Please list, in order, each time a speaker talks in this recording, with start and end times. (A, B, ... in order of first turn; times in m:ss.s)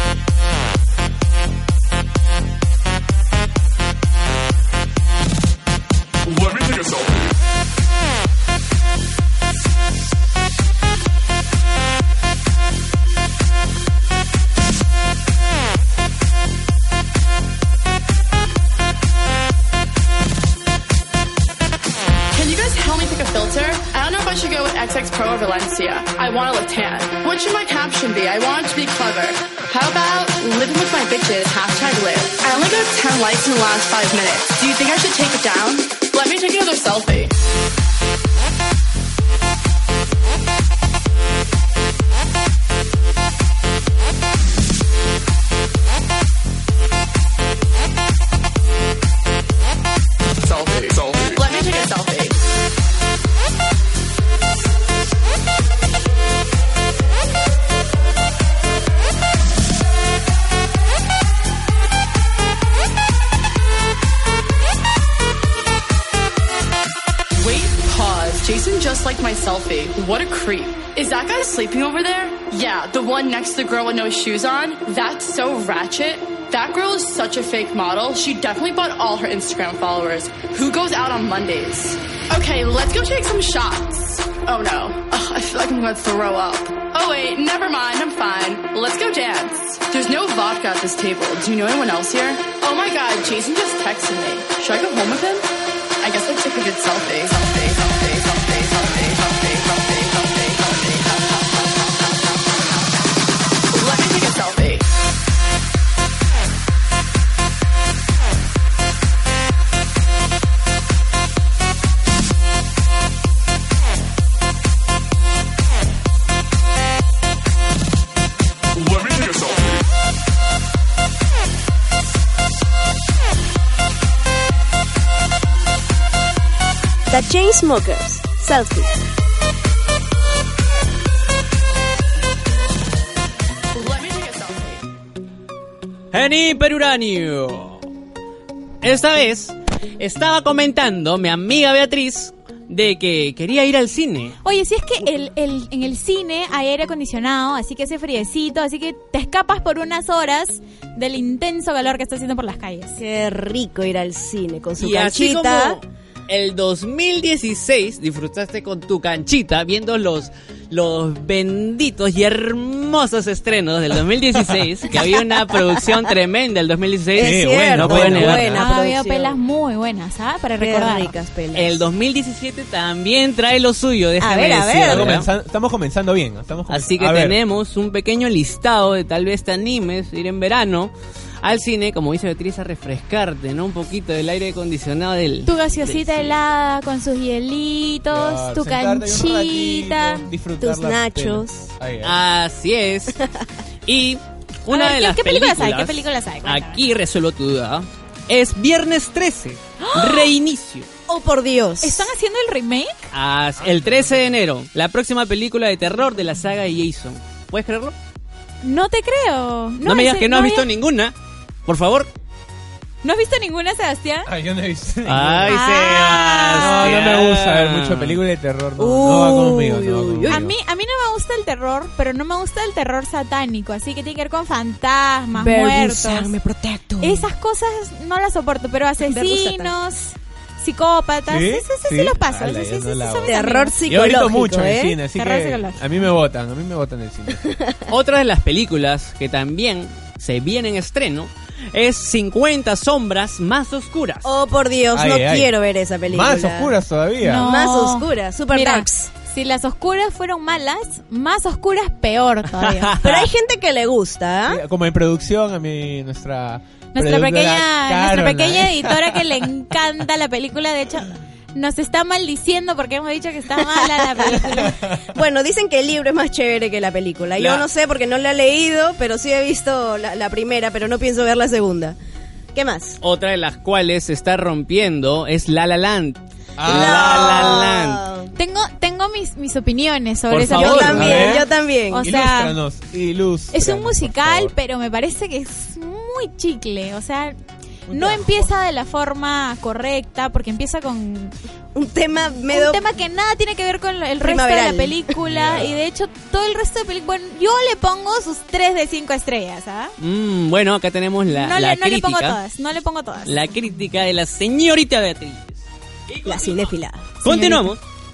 0:06.3-0:07.3 A
0:22.3-0:37.3 B
0:50.5-0:52.4 B
0:50.7-0:51.5 A
1:07.3-1:43.2 B
1:43.7-1:44.8 B
1:58.8-1:59.8 A
2:07.1-2:08.9 C
2:13.7-2:14.8 B
2:16.1-2:17.8 D
2:18.8-2:24.4 D
2:24.4-2:33.0 E
2:33.0-2:35.8 C
2:34.8-2:48.6 D
2:47.2-2:48.7 F
2:47.2-2:49.4 C
2:48.6-2:51.1 E
2:50.6-2:51.9 C
2:51.5-2:55.3 D
2:54.2-2:55.2 C
2:54.8-2:57.4 F
2:56.7-3:06.4 D
3:05.4-3:10.3 E
3:08.1-3:12.2 F
3:10.6-3:11.7 C
3:12.0-3:13.2 D
3:13.9-3:20.9 D
3:14.7-3:16.8 E
3:19.8-3:20.3 E
3:21.1-3:22.1 C
3:21.8-3:23.0 E
3:23.1-3:28.0 D
3:23.6-3:24.2 F
3:28.6-3:30.7 E
3:29.8-3:31.1 D
3:31.7-3:32.1 D
3:33.0-3:34.3 E
3:34.3-3:35.6 F
3:35.1-3:38.2 D
3:35.5-3:37.0 E
3:36.6-3:40.5 F
3:38.8-3:40.5 C
3:40.3-3:46.3 E
3:45.4-3:47.3 C
3:47.0-3:53.8 E
3:49.0-3:49.7 C
3:51.3-3:57.4 F
3:53.3-3:55.0 C
3:55.2-3:56.1 E
3:57.5-3:57.9 C
3:57.9-4:04.3 D
4:04.2-4:06.7 C
4:04.9-4:05.5 F
4:06.1-4:07.5 F
4:07.2-4:13.0 E
4:07.4-4:09.1 C
4:12.6-4:13.0 D
4:13.0-4:14.6 C
4:14.5-4:19.4 F
4:16.9-4:24.8 E
4:23.8-4:32.0 C
4:27.4-4:27.7 D
4:32.6-4:33.0 C
4:33.0-4:38.1 D
4:36.6-4:37.6 F
4:36.7-4:38.3 C
4:38.4-4:42.6 E
4:40.3-4:41.3 D
4:40.3-4:44.5 F
4:40.5-4:42.1 C
4:43.5-4:47.4 E
4:47.9-4:51.4 E
4:51.8-4:52.8 C
4:52.5-4:59.9 E
4:54.2-4:55.0 C
4:55.2-4:55.8 F
5:00.0-5:02.4 D
5:01.3-5:03.5 E
5:03.3-5:07.8 D
5:06.2-5:07.1 C
5:07.2-5:07.7 E